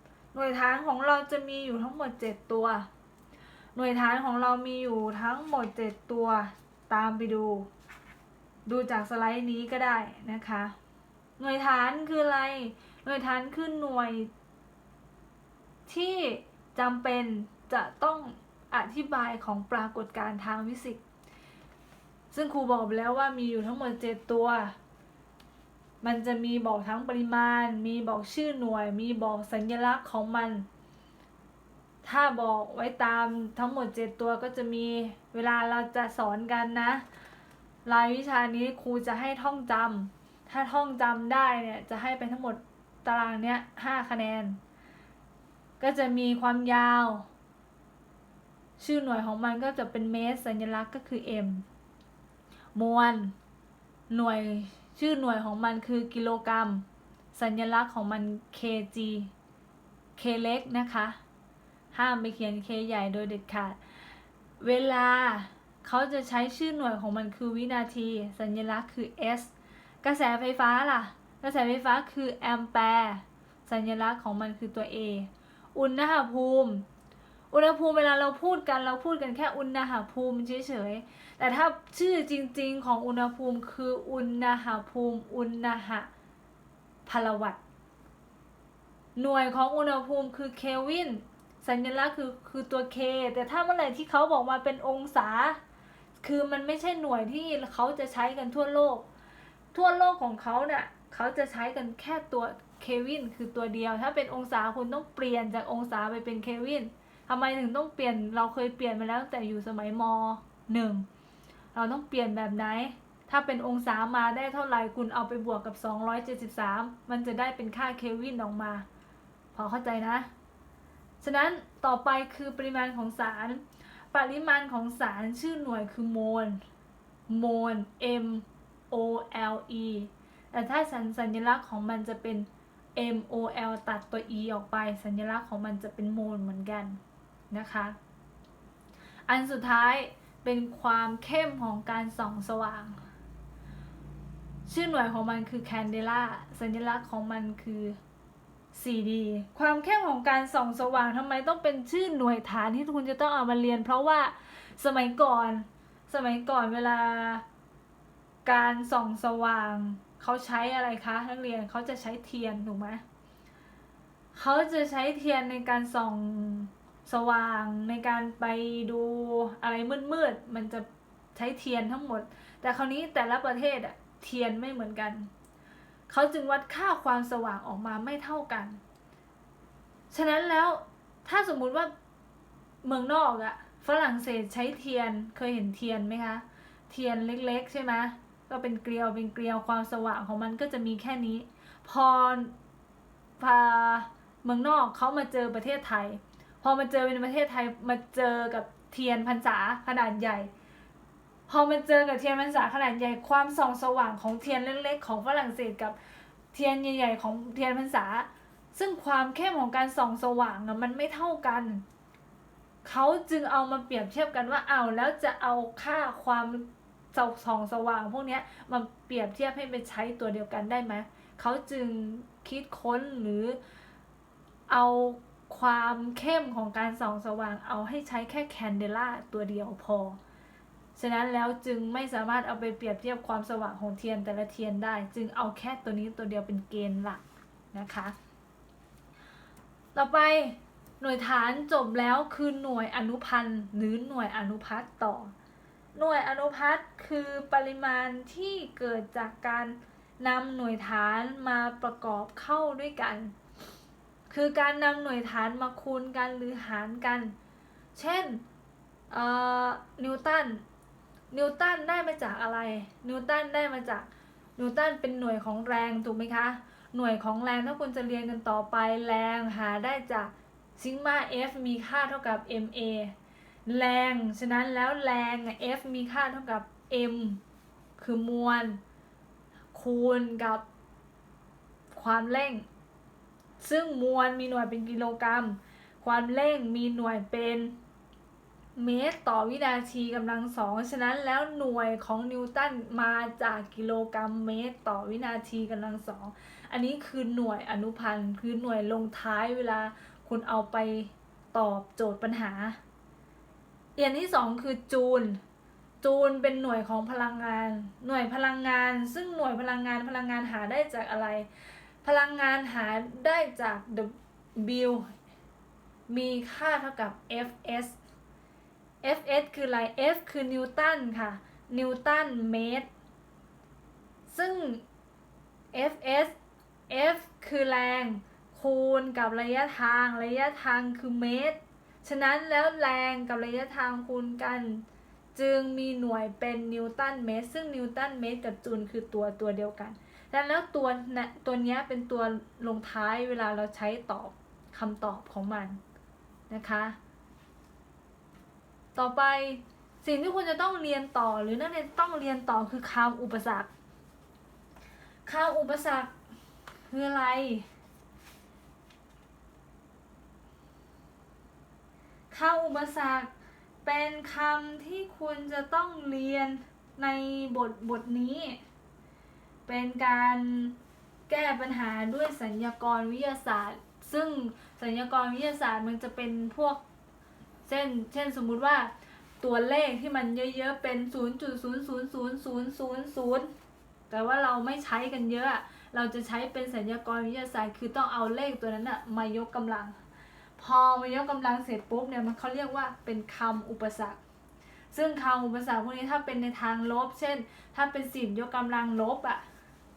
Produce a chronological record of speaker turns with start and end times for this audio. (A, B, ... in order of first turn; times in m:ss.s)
0:00.3-0:02.9 A
0:03.7-0:07.7 A
0:08.6-0:10.8 A
0:11.4-0:14.3 A
0:15.9-0:21.0 A
0:22.3-0:24.8 A
0:26.0-0:30.7 A
0:32.0-0:37.0 A
0:37.8-0:44.6 A
0:45.8-0:47.3 A
0:48.8-0:51.6 A
0:52.7-0:53.3 A
0:54.1-0:59.3 A
1:00.2-1:01.2 A
1:01.9-1:03.8 A
1:04.6-1:09.5 A
1:10.0-1:16.8 A
1:17.5-1:26.1 A
1:27.0-1:27.6 A
1:29.2-1:35.6 A
1:36.2-1:39.0 A
1:39.7-1:51.0 A
1:51.7-1:58.8 A
1:59.5-2:00.3 A
2:01.2-2:06.6 A
2:07.3-2:17.0 A
2:17.5-2:18.0 A
2:19.3-2:23.0 A
2:24.6-2:28.0 A
2:28.7-2:37.4 A
2:38.4-2:43.0 A
2:44.3-2:55.3 A
2:56.1-2:58.8 A
3:00.1-3:01.9 A
3:02.8-3:12.5 A
3:13.4-3:20.5 A
3:21.5-3:26.0 A
3:26.5-3:31.8 A
3:32.8-3:43.6 A
3:44.7-3:50.2 A
3:50.9-3:58.1 A
3:59.9-4:05.3 A
4:05.9-4:13.3 A
4:14.3-4:17.3 A
4:17.9-4:18.4 A
4:19.1-4:20.6 A
4:21.3-4:33.1 A
4:33.6-4:37.4 A
4:38.0-4:38.8 A
4:39.7-4:40.6 A
4:41.9-4:42.7 A
4:43.6-4:47.8 A
4:48.8-5:02.8 A
5:04.0-5:05.4 A
5:06.0-5:11.5 A
5:12.0-5:15.1 A
5:16.1-5:18.0 A
5:19.0-5:22.9 A
5:24.3-5:24.8 A
5:25.7-5:26.3 A
5:26.9-5:45.8 A
5:46.5-5:47.0 A
5:48.9-5:53.7 A
5:55.2-5:56.1 A
5:56.8-5:57.6 A
6:02.3-6:03.3 A
6:03.8-6:08.6 A
6:09.6-6:10.8 A
6:11.3-6:16.8 A
6:17.6-6:23.5 A
6:24.1-6:29.9 A
6:30.6-6:34.2 A
6:34.9-6:39.4 A